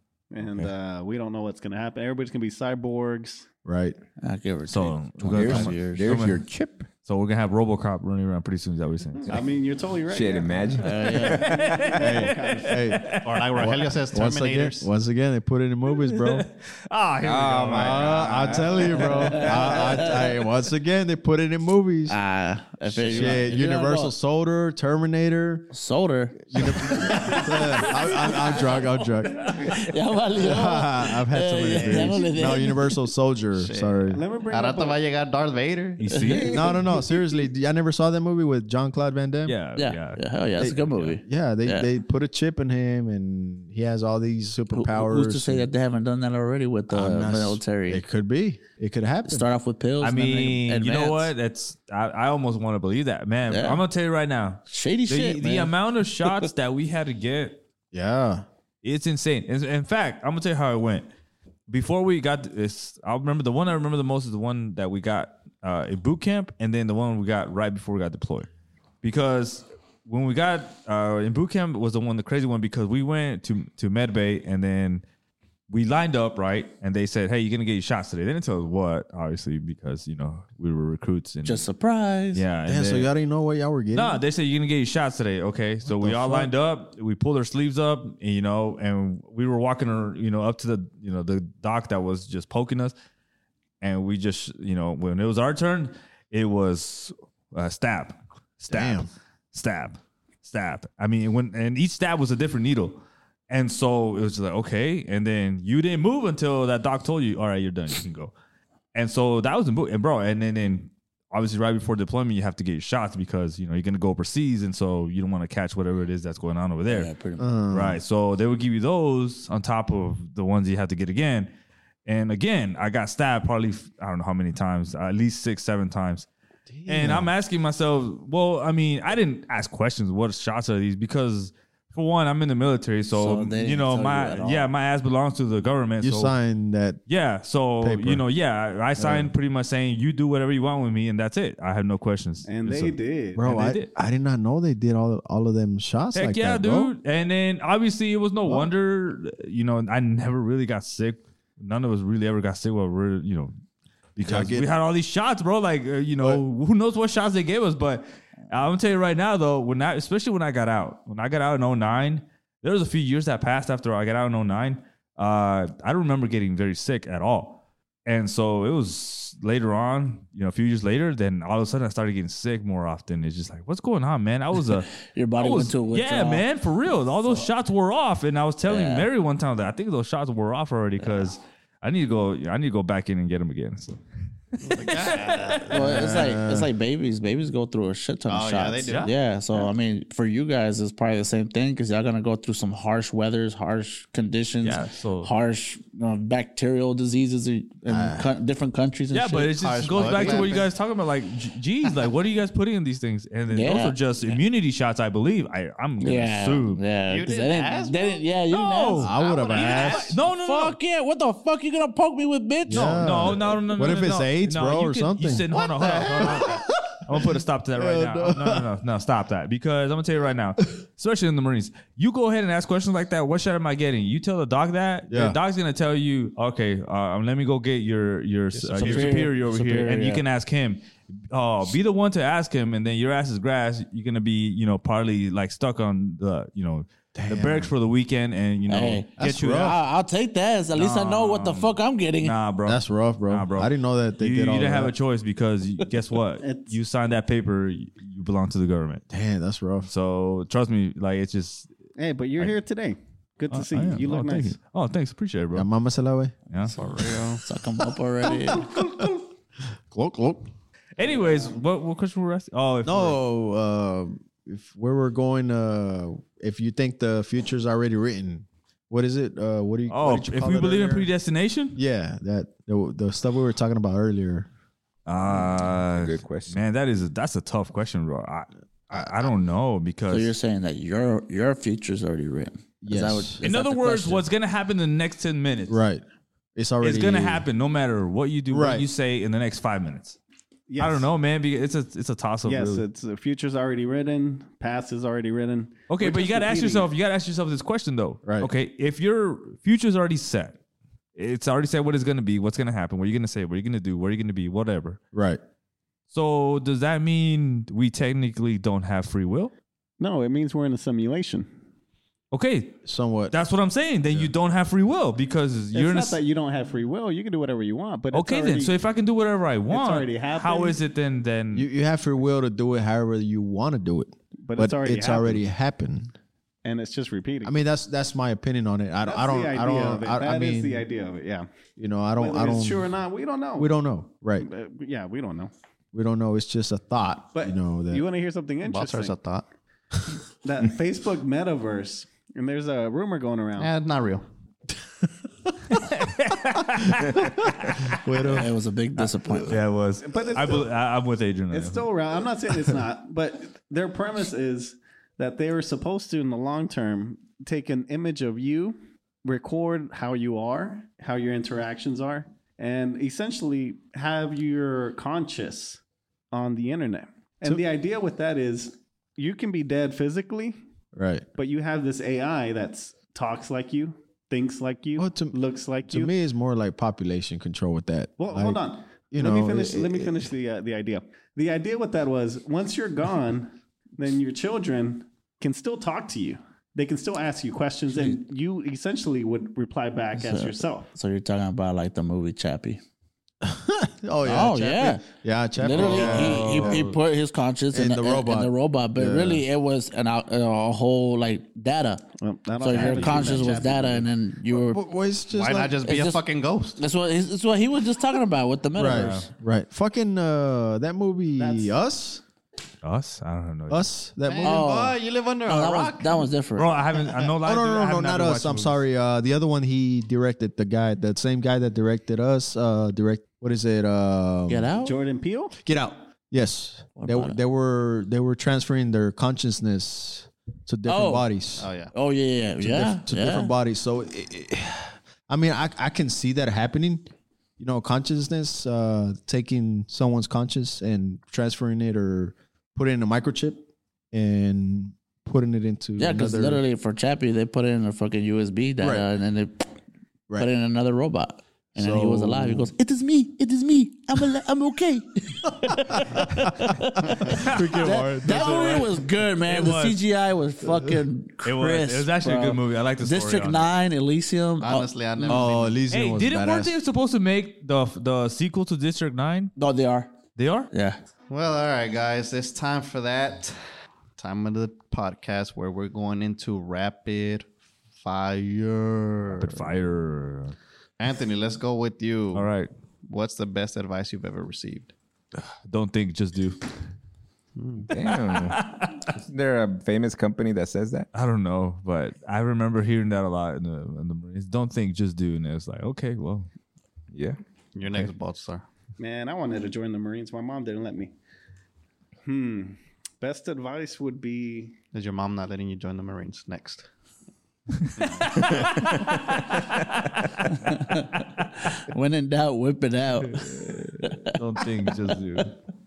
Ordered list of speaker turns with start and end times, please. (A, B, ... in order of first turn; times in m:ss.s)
0:00.3-0:03.5 A
0:00.4-0:00.7 B
0:03.6-0:04.0 C
0:04.2-0:06.2 D
0:04.7-0:06.4 B
0:05.3-0:06.9 E
0:07.0-0:09.4 B
0:09.2-0:10.7 A
0:10.1-0:12.0 E
0:10.8-0:11.5 D
0:11.0-0:13.4 B
0:11.4-0:13.0 A
0:12.0-0:16.5 C
0:13.2-0:14.9 F
0:15.9-0:20.1 B
0:17.2-0:18.7 E
0:17.7-0:22.2 C
0:18.7-0:19.5 A
0:22.1-0:24.1 D
0:22.9-0:25.7 C
0:23.1-0:23.4 A
0:25.7-0:28.7 D
0:26.5-0:29.4 C
0:29.5-0:33.0 D
0:30.4-0:34.2 C
0:31.8-0:32.7 A
0:33.6-0:36.3 F
0:34.1-0:35.0 A
0:36.0-0:36.6 B
0:36.1-0:36.8 D
0:36.5-0:39.6 C
0:39.5-0:40.2 B
0:39.8-0:41.9 D
0:40.6-0:45.7 C
0:40.8-0:41.2 B
0:44.7-0:48.0 D
0:46.9-0:49.5 C
0:49.2-0:51.3 D
0:50.0-0:57.6 B
0:53.5-0:53.8 D
0:54.7-0:56.5 D
0:57.9-0:58.4 C
0:58.8-1:01.1 B
1:01.7-1:08.5 B
1:09.0-1:15.0 B
1:15.7-1:21.7 B
1:21.4-1:22.4 D
1:22.3-1:23.1 B
1:22.7-1:24.2 C
1:23.9-1:32.9 B
1:25.8-1:26.5 C
1:33.8-1:48.4 B
1:38.7-1:39.1 C
1:48.9-1:57.1 B
1:56.9-1:57.5 D
1:57.4-1:58.0 C
1:57.7-2:01.5 B
2:02.1-2:06.3 B
2:06.7-2:07.3 C
2:06.9-2:16.4 B
2:13.1-2:14.7 D
2:16.0-2:17.0 C
2:17.1-2:23.9 B
2:17.8-2:18.2 C
2:19.0-2:19.3 C
2:22.4-2:23.5 A
2:23.4-2:26.9 C
2:26.1-2:33.6 B
2:34.2-3:04.0 B
2:34.2-2:34.7 C
2:55.0-2:56.5 D
2:58.7-2:59.1 D
3:01.0-3:01.3 D
3:04.6-3:06.1 B
3:04.6-3:06.0 F
3:05.7-3:20.4 D
3:05.7-3:06.7 C
3:08.3-3:09.1 F
3:08.9-3:09.1 B
3:14.6-3:15.3 B
3:17.9-3:18.3 C
3:19.1-3:26.8 B
3:19.6-3:20.7 F
3:23.5-3:24.0 D
3:26.0-3:29.1 D
3:27.1-3:28.2 F
3:28.5-3:30.8 B
3:29.0-3:30.2 C
3:29.2-3:30.0 F
3:30.2-3:33.3 D
3:32.7-3:37.2 C
3:32.7-3:59.8 B
3:37.8-3:38.7 C
3:45.1-3:45.4 C
3:48.7-3:50.2 D
3:48.8-3:49.1 C
3:57.2-3:57.7 C
3:58.7-4:02.4 D
3:59.2-3:59.8 C
4:00.8-4:09.0 B
4:02.7-4:04.9 C
4:06.4-4:06.8 A
4:09.1-4:09.9 C
4:09.8-4:11.7 B
4:12.0-4:14.6 A
4:13.5-4:15.7 B
4:15.5-4:16.3 C
4:16.5-4:16.8 B
4:16.7-4:18.8 D
4:16.8-4:17.4 F
4:18.2-4:19.2 C
4:19.9-4:20.5 C
4:21.0-4:23.2 B
4:21.0-4:21.6 A
4:22.8-4:31.1 C
4:29.9-4:31.8 B
4:31.8-4:34.5 C
4:35.1-4:40.3 B
4:35.7-4:36.6 E
4:38.9-4:39.3 C
4:40.1-4:44.2 D
4:42.8-4:43.4 C
4:43.4-4:45.8 B
4:45.7-4:46.0 C
4:46.6-4:47.5 C
4:46.8-4:50.2 B
4:48.5-4:48.9 C
4:50.7-4:51.1 A
4:50.8-4:52.8 B
4:52.4-4:56.9 A
4:55.9-5:00.6 B
4:58.2-4:58.5 C
5:01.2-5:05.0 B
5:05.1-5:05.4 C
5:06.1-5:09.5 B
5:10.0-5:11.5 A
5:12.3-5:16.2 B
5:12.8-5:13.3 C
5:15.7-5:18.8 A
5:18.1-5:21.7 B
5:19.7-5:20.8 A
5:21.5-5:26.1 C
5:24.4-5:25.4 A
5:26.6-5:27.6 A
5:27.4-5:30.9 C
5:29.0-5:31.5 A
5:31.8-5:32.9 C
5:32.2-5:33.7 A
5:33.6-5:34.5 C
5:34.4-5:35.5 A
5:35.9-5:38.0 C
5:37.4-5:39.2 A
5:38.6-5:39.5 F
5:40.4-5:43.7 A
5:43.6-5:44.2 F
5:45.7-5:48.4 B
5:46.8-5:48.6 C
5:48.3-5:49.6 D
5:49.0-5:51.9 B
5:50.0-5:50.7 A
5:51.5-6:05.8 A
6:06.3-6:10.6 A
6:10.9-6:11.3 C
6:11.4-6:16.1 A
6:15.0-6:20.3 C
6:18.2-6:30.9 A
6:30.2-6:32.8 D
6:33.4-6:37.0 C
6:34.2-6:35.1 D
6:35.6-6:42.0 D
6:35.8-6:36.9 B
6:37.7-6:39.4 C
6:42.2-6:44.1 A
6:42.6-6:44.8 D
6:42.7-6:44.0 F
6:44.5-6:45.8 C
6:45.3-6:46.8 F
6:45.8-6:46.2 D
6:46.8-6:49.2 D
6:48.7-6:52.2 C
6:48.9-6:49.3 B
6:51.4-6:51.7 A
6:52.8-6:53.9 B
6:53.7-6:54.7 C
6:54.2-6:56.3 F
6:54.4-6:56.7 D
6:56.6-6:58.8 B
6:57.4-7:04.7 C
7:04.5-7:05.0 D
7:04.8-7:05.6 A
7:05.6-7:11.7 C
7:07.0-7:07.4 D
7:10.9-7:11.3 D
7:11.6-7:11.9 F
7:11.9-7:13.5 D
7:12.6-7:26.6 C
7:26.0-7:29.7 D
7:28.8-7:29.1 C
7:30.4-7:45.4 D
7:31.8-7:32.7 C
7:35.9-7:39.0 C
7:37.3-7:37.9 B
7:39.4-7:40.0 B
7:40.7-7:41.0 C
7:41.4-7:43.7 B
7:44.6-7:45.8 F
7:45.3-7:46.8 C
7:45.9-7:49.5 B
7:49.6-7:50.2 D
7:50.4-7:50.7 B
7:50.7-7:51.0 D
7:51.3-7:53.6 F
7:54.2-7:59.7 F
7:59.2-8:00.6 B
8:01.0-8:02.5 F
8:02.3-8:02.7 B
8:03.1-8:04.9 F
8:05.7-8:06.6 B
8:07.6-8:07.9 F
8:07.9-8:11.1 E
8:08.3-8:09.0 B
8:11.1-8:16.5 B
8:17.1-8:17.4 E
8:17.8-8:18.6 F
8:19.0-8:21.1 A
8:22.2-8:24.8 A
8:24.9-8:26.9 F
8:27.8-8:31.5 B
8:28.3-8:28.6 F
8:28.4-8:29.2 E
8:30.7-8:34.4 D
8:33.3-8:35.6 B